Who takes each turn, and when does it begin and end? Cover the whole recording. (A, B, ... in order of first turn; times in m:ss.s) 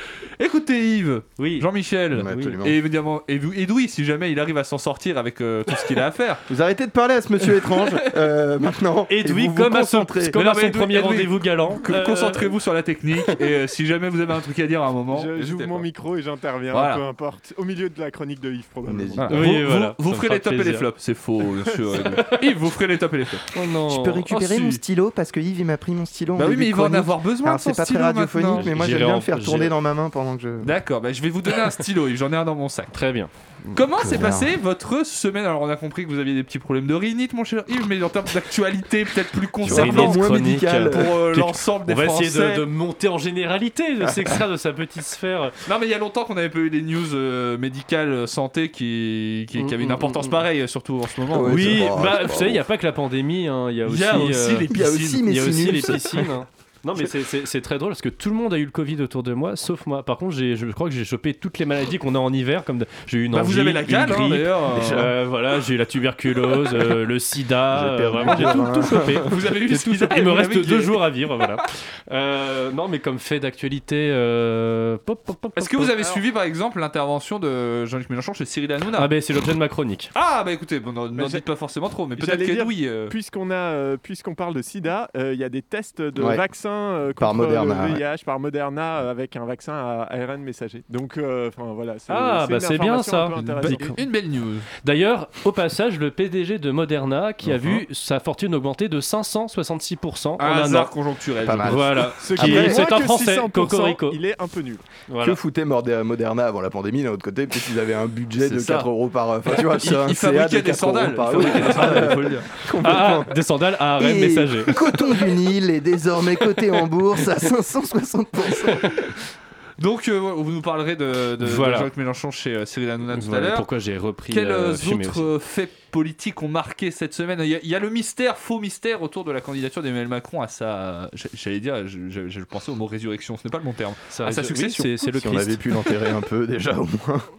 0:00.4-0:06.4 A
0:01.4-0:01.7 B
0:02.1-0:02.8 C
0:02.2-0:02.6 B
0:06.5-0:10.4 C
0:09.1-0:12.5 B
0:10.3-0:15.3 A
0:15.1-0:19.3 D
0:15.4-0:15.8 C
0:16.7-0:17.0 A
0:18.8-0:19.4 C
0:19.2-0:23.5 A
0:19.3-0:20.8 B
0:23.5-0:24.3 B
0:23.9-0:30.8 C
0:24.3-0:24.8 A
0:26.4-0:28.7 A
0:28.6-0:29.7 B
0:30.6-0:33.0 A
0:32.9-0:33.8 B
0:33.8-0:42.7 A
0:34.0-0:34.5 C
0:39.6-0:41.2 C
0:39.7-0:45.5 B
0:45.7-0:51.8 A
0:49.6-0:50.4 B
0:51.3-0:52.7 C
0:51.5-1:16.0 B
0:53.9-0:55.3 A
0:54.7-0:56.3 C
1:03.3-1:05.1 A
1:04.7-1:05.1 C
1:07.7-1:09.3 C
1:09.2-1:11.1 A
1:15.6-1:19.1 A
1:19.0-1:20.1 B
1:20.2-1:23.1 A
1:21.2-1:21.4 D
1:22.2-1:34.0 D
1:26.2-1:26.4 C
1:27.2-1:28.0 C
1:32.1-1:34.0 B
1:33.6-1:34.7 A
1:34.8-1:40.9 B
1:40.4-1:42.1 A
1:41.4-1:42.9 C
1:41.6-1:44.2 B
1:42.2-1:44.8 D
1:45.1-1:45.4 B
1:45.2-1:53.4 C
1:48.4-1:48.9 A
1:49.7-1:52.5 A
1:51.6-1:52.0 B
1:52.8-1:54.8 B
1:54.0-1:59.2 C
1:59.8-2:03.7 A
2:01.4-2:01.9 B
2:03.1-2:05.3 B
2:04.3-2:15.0 A
2:14.1-2:15.7 B
2:15.0-2:17.3 C